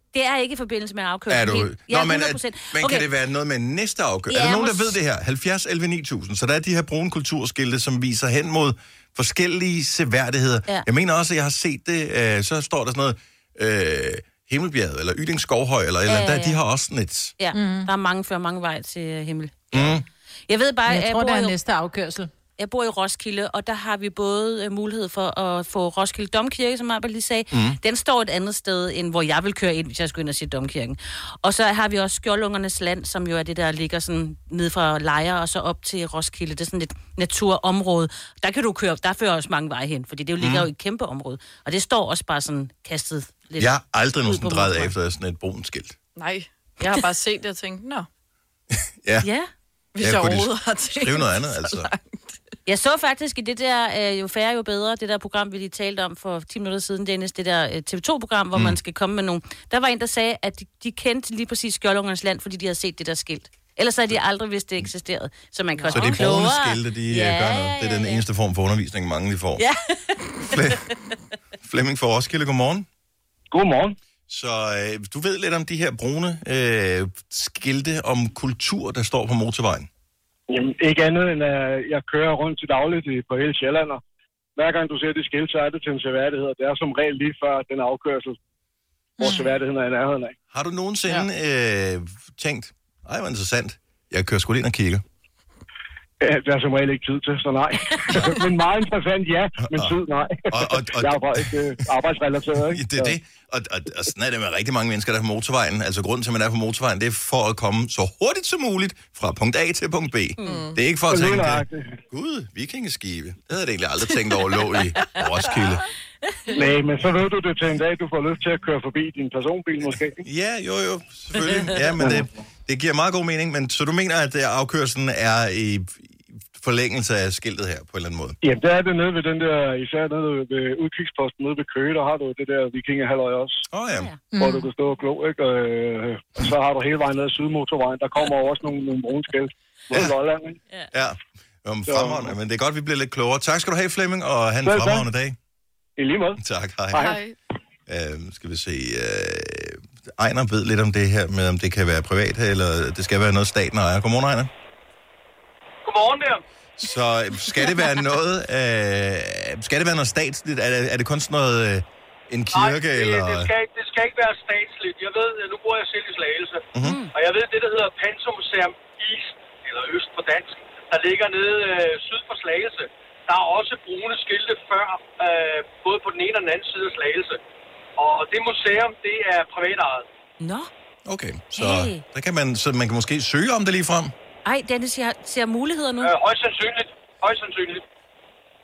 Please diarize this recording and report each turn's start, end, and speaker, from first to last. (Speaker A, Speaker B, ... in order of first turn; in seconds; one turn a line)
Speaker A: 0.1-3.1
Speaker B: 1.3-17.4
Speaker A: 4.3-5.0
Speaker A: 16.1-16.6
Speaker A: 17.4-21.6
Speaker C: 17.5-17.9
Speaker B: 19.7-20.1
Speaker C: 20.9-22.3
Speaker A: 22.6-44.9
Speaker B: 27.5-27.8
Speaker B: 40.4-40.7
Speaker B: 43.6-46.0
Speaker D: 46.2-48.1
Speaker B: 48.7-49.3
Speaker A: 49.2-49.5
Speaker D: 50.0-52.4
Speaker B: 50.0-51.9
Speaker A: 52.7-68.2
Speaker B: 65.9-69.6
Speaker A: 69.6-70.8
Speaker B: 70.5-70.8
Speaker B: 71.6-72.9
Speaker E: 73.5-74.0
Speaker B: 74.3-79.9
Speaker E: 80.5-84.0
Speaker E: 84.6-88.4
Speaker E: 89.2-90.3
Speaker C: 89.2-89.5
Speaker B: 90.5-95.0
Speaker E: 96.2-103.2
Speaker B: 99.6-100.0
Speaker B: 100.5-101.8
Speaker B: 102.7-115.9
Speaker D: 110.4-110.8
Speaker E: 111.1-112.0
Speaker E: 116.5-120.2
Speaker B: 120.2-128.4
Speaker E: 122.0-122.3
Speaker E: 128.4-133.6
Speaker B: 133.7-134.1
Speaker A: 133.9-134.2
Speaker C: 134.3-134.7
Speaker E: 134.4-140.6
Speaker B: 140.9-145.4
Speaker E: 141.9-142.3
Speaker E: 144.6-145.1
Speaker E: 146.0-146.4
Speaker B: 146.4-147.1
Speaker E: 146.9-147.2
Speaker D: 147.0-147.3
Speaker B: 147.9-154.5
Speaker F: 155.8-156.4
Speaker B: 156.8-163.5
Speaker F: 162.5-177.4
Speaker B: 166.8-167.0
Speaker A: 166.8-167.1
Speaker F: 178.0-180.1
Speaker A: 180.4-180.7
Speaker B: 181.1-184.1
Speaker A: 181.6-182.0
Speaker A: 184.4-186.2
Speaker F: 186.0-187.8